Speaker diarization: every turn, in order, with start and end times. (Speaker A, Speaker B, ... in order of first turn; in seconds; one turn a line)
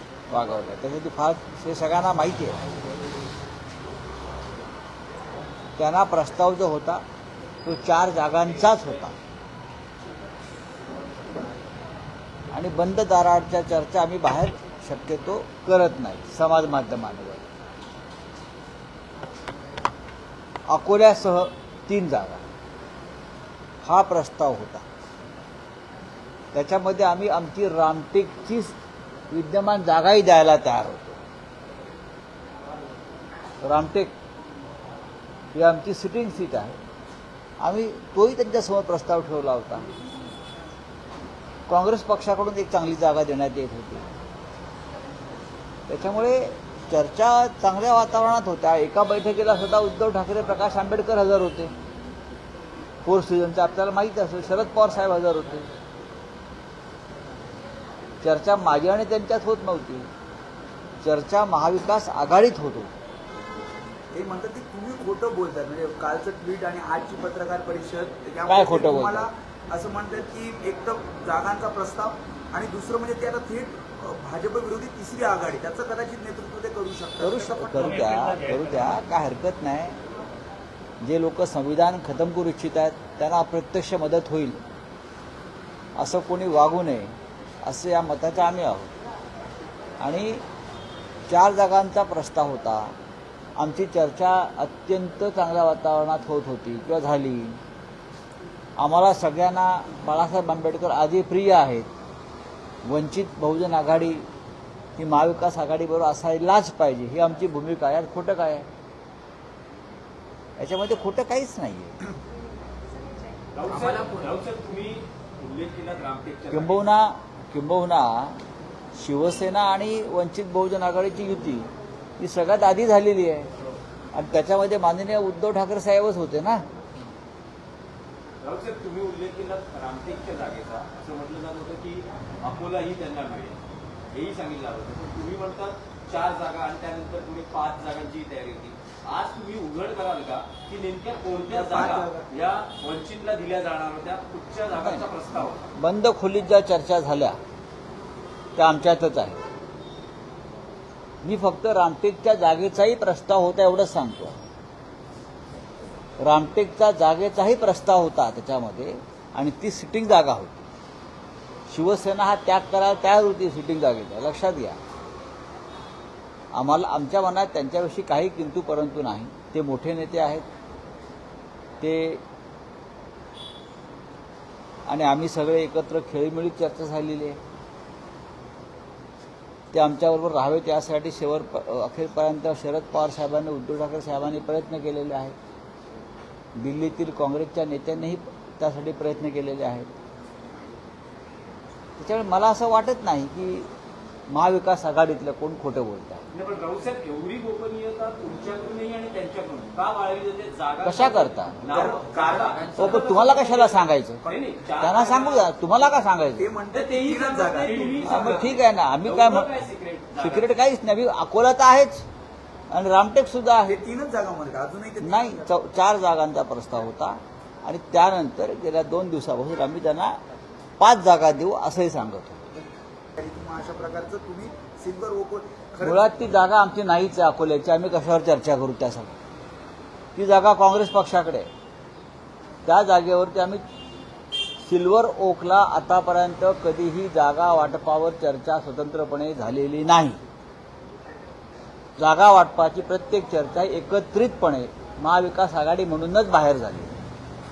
Speaker A: 0.3-2.6
Speaker A: 5.8-7.0
Speaker A: 7.7-9.2
Speaker A: 12.5-17.4
Speaker A: 20.7-22.4
Speaker A: 23.8-24.9
Speaker A: 26.5-28.8
Speaker A: 29.3-31.2
Speaker A: 33.6-34.1
Speaker A: 35.5-36.8
Speaker A: 37.6-39.9
Speaker A: 41.7-44.1
Speaker A: 45.9-51.7
Speaker A: 53.0-55.7
Speaker A: 58.2-60.1
Speaker A: 61.0-62.9
Speaker B: 64.1-78.0
Speaker A: 68.5-69.3
Speaker A: 77.2-80.0
Speaker C: 77.8-79.0
Speaker A: 81.0-84.6
Speaker A: 86.0-89.0
Speaker A: 90.0-90.4
Speaker A: 91.3-93.0
Speaker A: 93.6-97.6
Speaker A: 98.8-101.9
Speaker A: 102.8-104.3
Speaker A: 105.0-108.7
Speaker A: 110.6-112.0
Speaker C: 113.5-116.8
Speaker A: 116.5-118.4
Speaker A: 119.0-123.5
Speaker A: 124.1-126.7
Speaker C: 128.4-145.7
Speaker B: 141.5-142.3
Speaker A: 144.8-147.4
Speaker A: 148.6-149.4
Speaker A: 151.2-154.4
Speaker A: 156.2-160.7
Speaker A: 161.7-164.8
Speaker A: 166.5-170.5
Speaker A: 171.8-172.2
Speaker A: 174.9-177.4
Speaker A: 179.7-185.3
Speaker A: 186.6-189.9
Speaker A: 192.0-193.7
Speaker A: 194.3-196.2
Speaker C: 196.3-205.6
Speaker A: 200.8-201.6
Speaker B: 201.7-203.3
Speaker A: 202.8-204.3
Speaker A: 204.8-206.5
Speaker B: 206.4-208.5
Speaker C: 206.7-210.6
Speaker A: 208.0-209.7
Speaker A: 210.2-212.1
Speaker A: 212.7-213.8
Speaker B: 213.7-215.5
Speaker A: 215.0-220.2
Speaker A: 220.8-222.6
Speaker B: 223.2-226.0
Speaker A: 225.8-229.1
Speaker A: 230.2-231.5
Speaker A: 232.7-233.6
Speaker A: 234.6-240.2
Speaker A: 242.0-247.0